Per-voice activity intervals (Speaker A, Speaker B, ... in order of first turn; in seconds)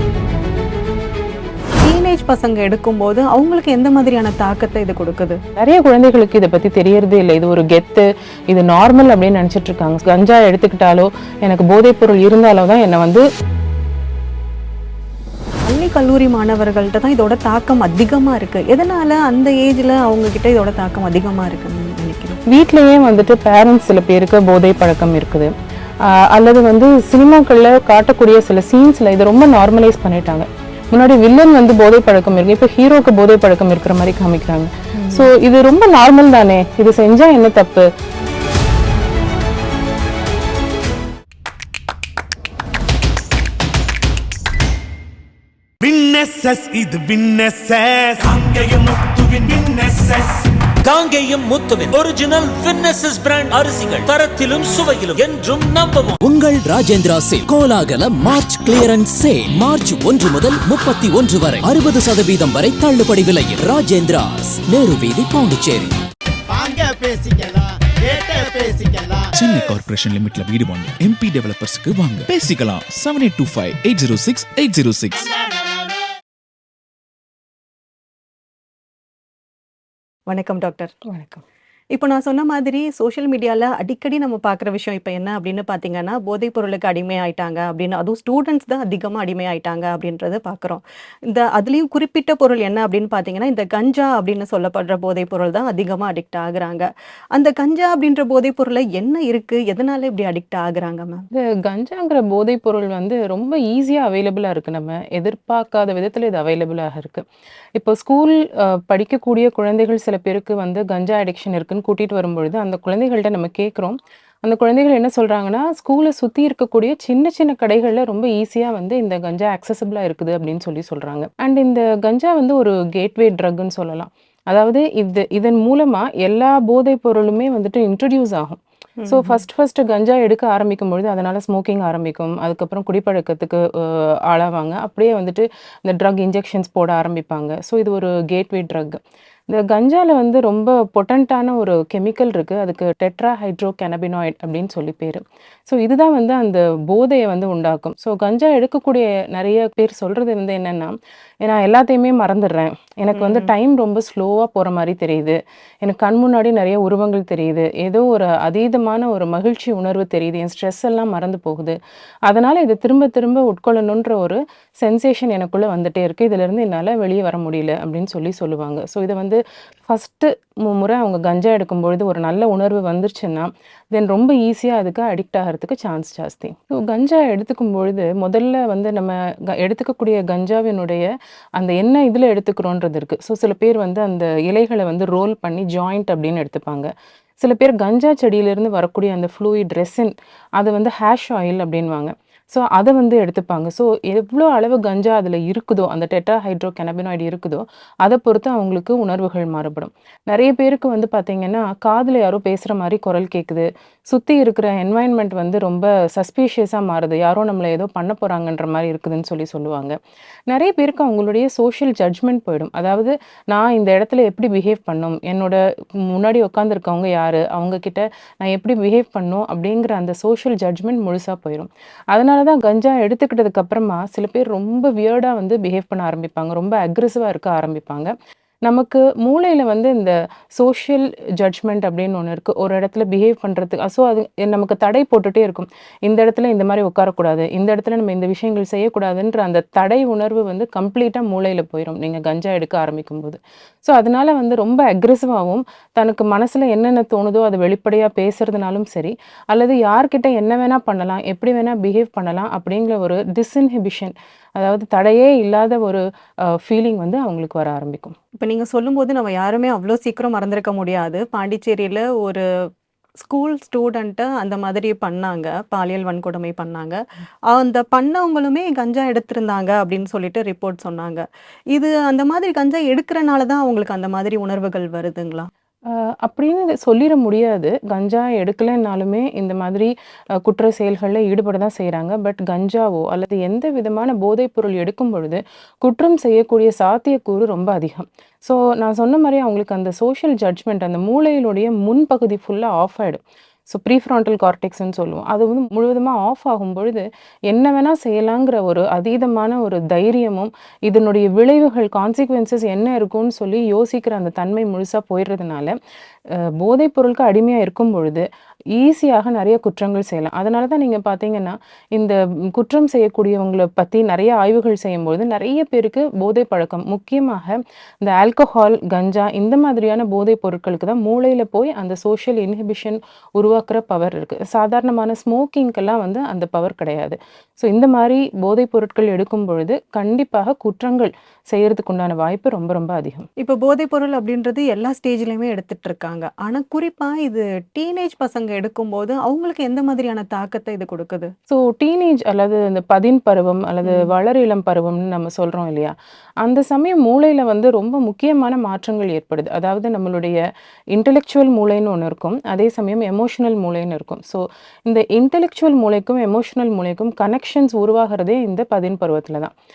Speaker A: 1.8-5.4, 15.6-22.4, 35.0-35.3, 80.3-80.9, 81.9-101.2, 129.0-129.4, 153.1-153.5, 258.4-262.4, 263.2-267.0, 267.5-275.5, 333.4-341.3
Speaker B: 5.6-13.2, 22.5-25.5, 26.1-37.9, 81.1-81.4, 101.3-107.2, 107.8-139.0, 139.5-161.8, 162.3-186.9, 187.4-209.9, 210.5-215.6, 216.1-228.1, 228.7-256.0, 256.5-258.1, 275.9-279.9, 280.4-305.7, 306.3-308.2, 308.8-333.2, 341.5-350.4, 350.9-359.5
Speaker C: 45.8-50.5
Speaker D: 50.8-56.2
Speaker E: 56.2-66.0
Speaker F: 66.5-69.3
Speaker G: 69.3-75.3